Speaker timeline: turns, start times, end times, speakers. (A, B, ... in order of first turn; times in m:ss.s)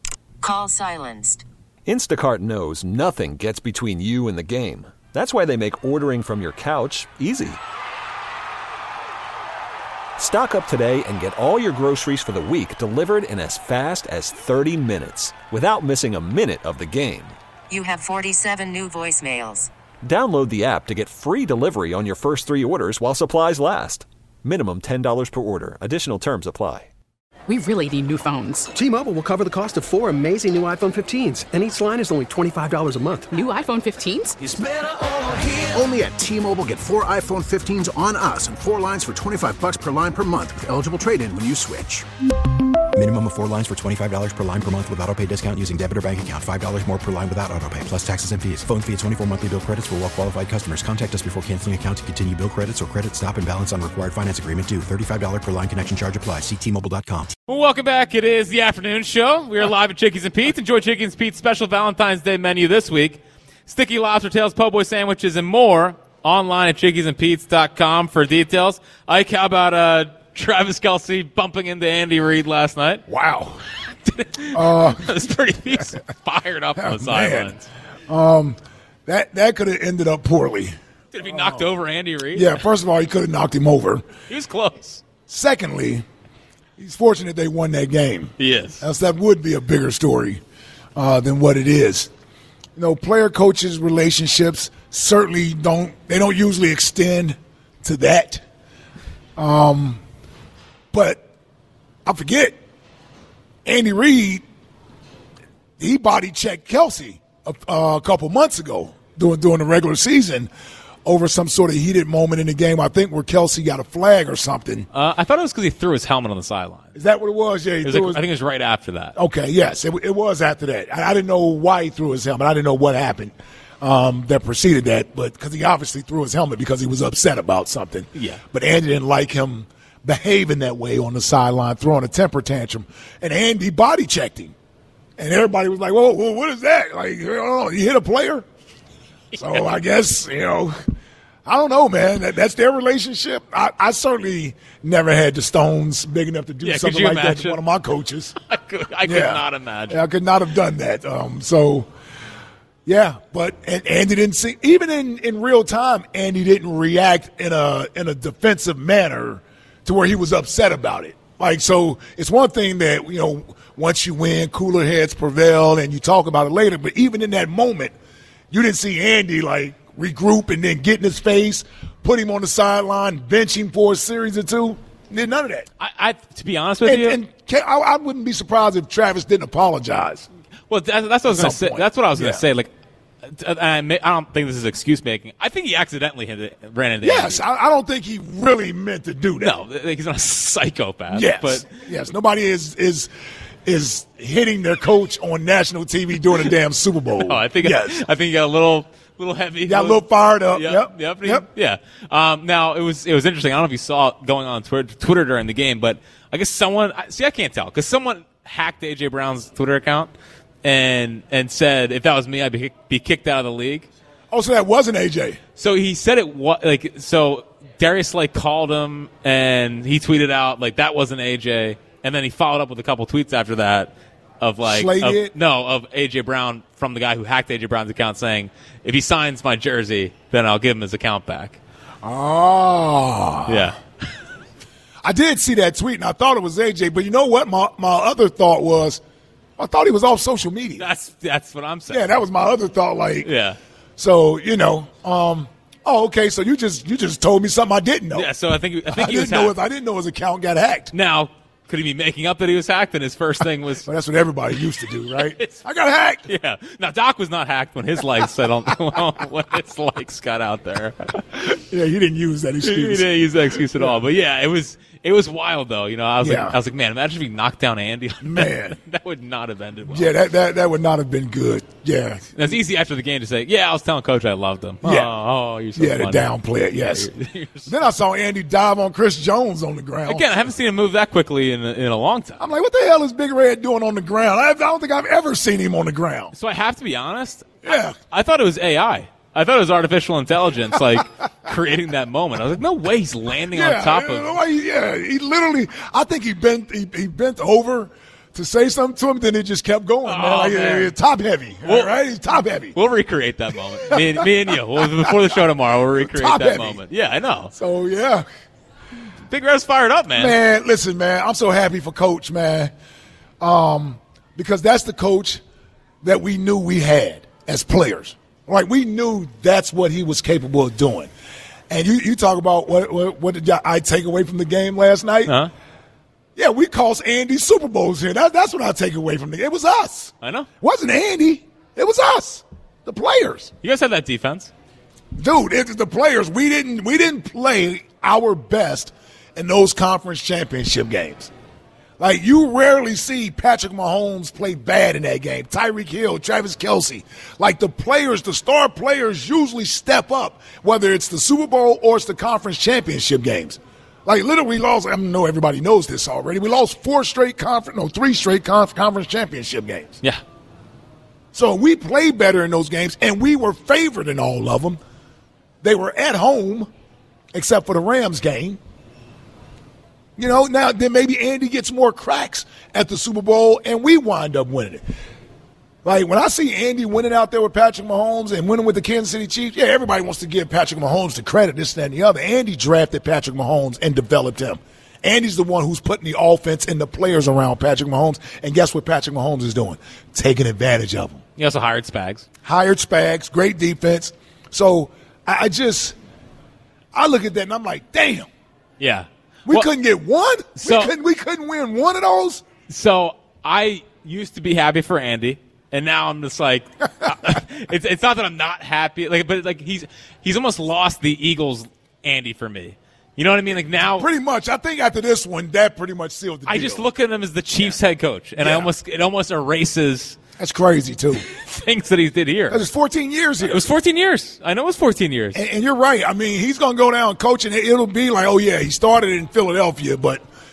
0:00.4-0:01.4 A
0:01.9-0:07.6 B
0:10.2-0:17.4 B
0:17.7-0:19.7 A
0:20.0-0:26.9 B
0:27.5-0:28.7 C
0:28.7-0:33.3 D
0:33.3-0:34.4 C
0:34.4-0:42.1 E
0:43.0-0:57.3 F
0:57.5-1:13.0 G
1:13.1-1:13.6 H
1:14.0-1:17.7 G
1:14.5-1:15.9 H
1:16.8-1:17.6 H
1:18.1-1:21.7 H
1:21.1-1:22.6 G
1:22.3-1:24.1 H
1:24.3-1:25.0 G
1:25.3-1:26.0 H
1:26.8-1:30.4 H
1:28.4-1:28.8 G
1:31.0-1:32.1 H
1:32.8-1:38.4 H
1:39.4-1:40.0 H
1:40.9-1:41.2 H
1:42.0-1:42.6 H
1:43.6-1:44.4 H
1:45.8-1:50.5 H
1:51.0-1:54.9 H
1:54.9-1:57.0 G
1:57.0-1:58.2 H
1:57.8-1:59.2 G
1:59.2-2:14.5 H
2:08.2-2:08.4 G
2:15.2-2:18.4 H
2:19.3-2:20.8 H
2:21.4-2:28.3 H
2:26.6-2:27.6 G
2:28.4-2:30.0 G
2:29.1-2:31.9 H
2:32.9-2:47.9 H
2:48.5-2:55.7 H
2:55.8-2:57.2 G
2:56.8-3:00.3 H
3:00.7-3:02.7 G
3:01.3-3:02.4 H
3:03.3-3:07.4 G
3:07.0-3:09.6 H
3:09.4-3:11.7 G
3:11.1-3:13.1 H
3:13.6-3:18.0 H
3:17.2-3:30.1 G
3:19.7-3:21.4 H
3:30.6-3:33.9 G
3:34.3-3:35.4 H
3:35.6-3:51.6 G
3:44.6-3:45.3 H
3:52.0-3:53.7 H
3:53.5-3:53.8 G
3:55.0-3:59.0 H
3:59.6-4:00.9 H
4:00.8-4:02.1 G
4:01.9-4:03.3 H
4:03.2-4:03.6 G
4:04.0-4:08.3 H
4:08.1-4:09.6 G
4:08.9-4:10.9 H
4:10.9-4:13.9 G
4:13.8-4:16.3 H
4:15.1-4:15.6 G
4:16.3-4:21.2 G
4:21.4-4:24.0 H
4:22.6-4:30.2 G
4:26.2-4:26.6 H
4:28.2-4:28.8 H
4:29.9-4:32.3 H
4:32.4-4:37.8 G
4:34.8-4:35.1 H
4:35.8-4:37.1 H
4:37.7-4:40.5 H
4:40.1-4:42.4 G
4:42.4-4:46.3 H
4:46.3-4:54.4 G
4:47.6-4:48.0 H
4:53.5-5:02.8 H
5:00.0-5:00.9 G
5:01.6-5:01.9 G
5:02.7-5:07.5 G
5:03.8-5:05.4 H
5:06.0-5:06.8 H
5:07.5-5:08.3 H
5:09.3-5:10.4 G
5:10.2-5:12.7 H
5:13.4-5:15.4 H
5:16.0-5:21.1 H
5:21.7-5:25.4 H
5:25.3-5:25.5 G
5:26.4-5:33.5 H
5:30.2-5:30.5 G
5:33.6-5:34.5 G
5:35.2-5:41.3 H
5:42.0-6:00.0 H
6:01.3-6:04.8 H
6:05.6-6:06.7 H
6:07.3-6:08.6 H
6:10.2-6:14.8 H
6:15.8-6:31.2 H
6:31.4-6:32.3 G
6:32.4-6:36.0 H
6:36.9-6:38.3 H
6:38.8-6:39.7 G
6:39.5-6:42.4 H
6:40.6-6:40.9 G
6:42.7-6:54.1 G
6:53.9-6:56.9 H
6:56.5-7:00.2 G
6:58.4-6:58.7 H
7:00.4-7:01.2 H
7:01.3-7:02.6 G
7:02.5-7:03.7 H
7:03.4-7:05.4 G
7:05.3-7:10.2 H